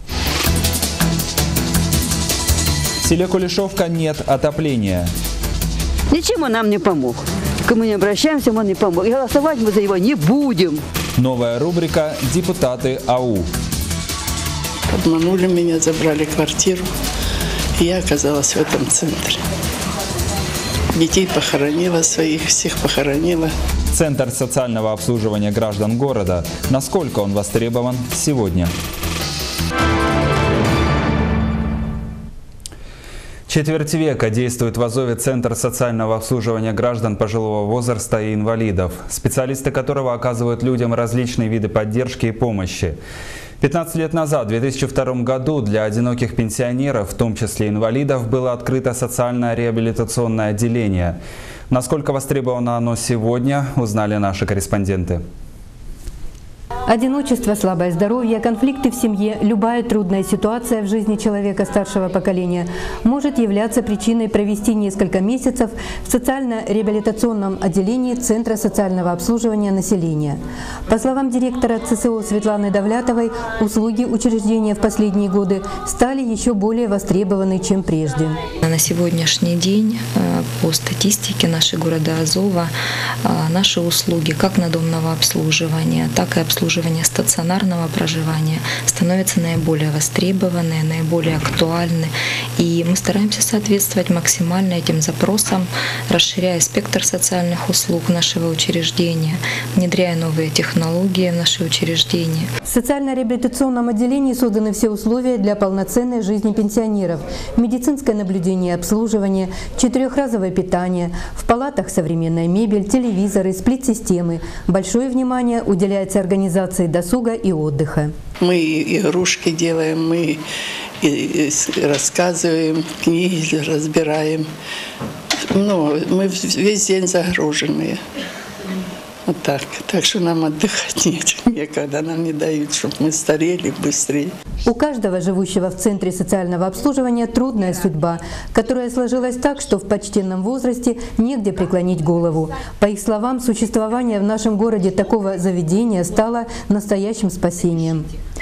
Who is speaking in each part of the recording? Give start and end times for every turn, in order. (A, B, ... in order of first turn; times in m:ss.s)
0:03.0-0:05.1 A
0:06.1-0:10.8 B
0:11.2-0:13.5 A
0:14.9-0:16.9 C
0:17.8-0:19.4 C
0:20.9-0:23.5 C
0:23.9-0:28.7 A
0:33.5-0:43.0 A
0:43.6-0:51.2 A
0:51.7-0:55.2 A
0:56.9-1:18.4 D
1:18.6-1:42.5 E
1:42.7-1:58.1 D
1:58.4-2:00.4 C
2:01.0-2:04.5 C
2:05.5-2:08.0 C
2:09.3-2:14.3 C
2:14.7-2:28.1 D